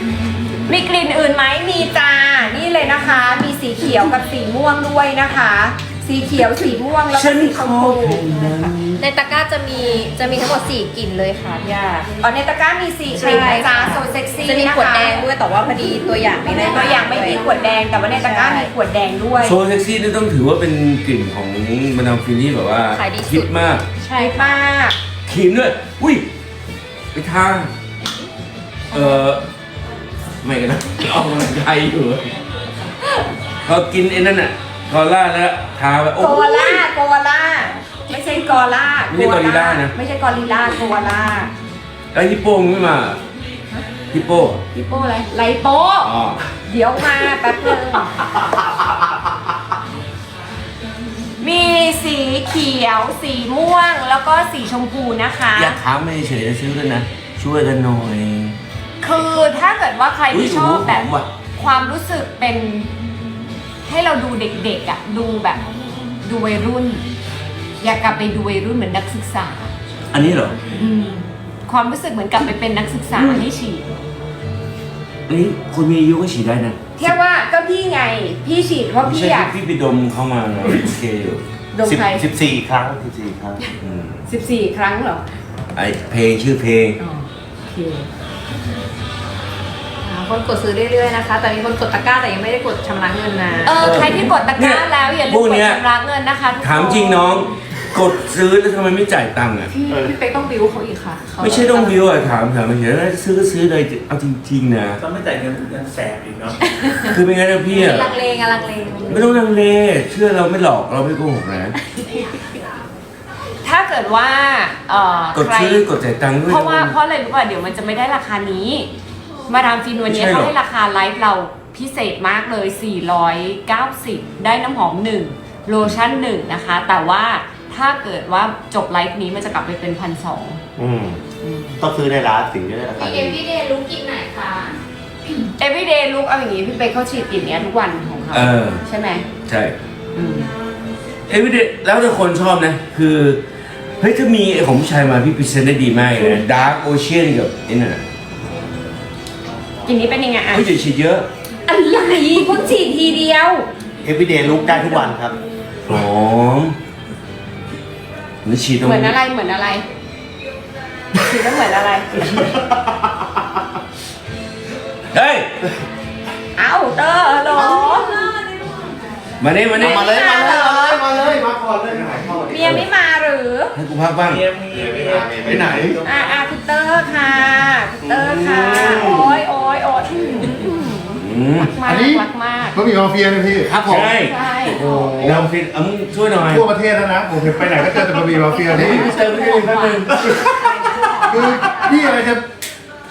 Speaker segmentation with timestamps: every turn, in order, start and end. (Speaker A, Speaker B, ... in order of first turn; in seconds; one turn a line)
Speaker A: 0.7-8.2
Speaker B: 7.1-9.0
Speaker C: 9.0-12.0
Speaker A: 11.7-15.2
Speaker C: 13.1-17.5
Speaker A: 16.4-19.6
Speaker C: 18.1-18.7
Speaker B: 19.4-23.8
Speaker C: 22.9-24.6
Speaker A: 24.1-24.9
Speaker B: 25.2-26.3
Speaker B: 27.1-27.7
Speaker B: 28.9-29.4
Speaker B: 30.4-32.3
Speaker B: 33.6-36.8
Speaker A: 36.2-41.5
Speaker B: 39.1-39.9
Speaker B: 42.1-43.2
Speaker B: 44.1-44.6
Speaker A: 44.7-46.1
Speaker B: 46.0-46.4
Speaker A: 46.7-48.2
Speaker A: 51.4-55.8
Speaker B: 55.5-58.6
Speaker A: 59.0-62.9
Speaker B: 60.3-61.3
Speaker A: 63.9-65.6
Speaker A: 66.2-67.0
Speaker A: 67.8-69.7
Speaker B: 70.1-70.6
Speaker A: 70.8-73.8
Speaker B: 73.1-73.4
Speaker B: 75.3-77.2
Speaker A: 77.0-79.5
Speaker B: 79.0-81.4
Speaker A: 81.7-82.2
Speaker D: 81.8-83.6
Speaker B: 83.8-84.2
Speaker A: 84.3-85.2
Speaker B: 85.7-87.0
Speaker A: 87.0-88.1
Speaker C: 90.0-93.9
Speaker A: 93.6-97.3
Speaker B: 93.7-95.8
Speaker B: 96.6-99.7
Speaker C: 99.7-102.1
Speaker B: 101.4-105.0
Speaker E: 105.0-106.6
Speaker C: 106.8-107.1
Speaker B: 107.1-108.1
Speaker C: 107.7-109.3
Speaker B: 109.1-111.7
Speaker C: 111.9-112.3
Speaker A: 113.6-115.8
Speaker B: 115.3-116.9
Speaker A: 116.5-118.9
Speaker A: 119.5-130.6
Speaker B: 120.1-120.5
Speaker D: 130.8-131.2
Speaker A: 131.4-131.8
Speaker D: 131.8-133.4
Speaker C: 132.9-134.7
Speaker A: 135.6-139.2
Speaker B: 138.3-138.8
Speaker B: 139.5-139.8
Speaker A: 140.1-140.5
Speaker B: 141.3-143.4
Speaker B: 144.0-148.0
Speaker A: 149.9-150.7
Speaker B: 150.5-151.3
Speaker A: 151.7-153.7
Speaker D: 154.0-155.3
Speaker B: 155.8-156.8
Speaker B: 158.4-159.2
Speaker A: 158.8-159.8
Speaker A: 161.2-162.3
Speaker D: 162.4-162.9
Speaker B: 165.1-165.5
Speaker A: 166.6-168.2
Speaker C: 167.5-168.9
Speaker B: 169.4-170.2
Speaker A: 169.7-171.0
Speaker D: 169.7-172.8
Speaker A: 172.5-173.7
Speaker B: 173.7-174.4
Speaker E: 174.2-176.2
Speaker D: 174.7-176.0
Speaker F: 175.6-175.9
Speaker A: 176.0-181.2
Speaker B: 178.1-179.3
Speaker B: 181.2-181.7
Speaker A: 181.7-182.8
Speaker F: 181.8-183.8
Speaker B: 183.7-186.7
Speaker A: 183.9-185.4
Speaker F: 185.2-185.4
Speaker F: 186.5-189.1
Speaker A: 188.3-192.2
Speaker B: 188.7-190.6
Speaker F: 190.1-190.6
Speaker C: 190.9-191.9
Speaker F: 191.2-192.4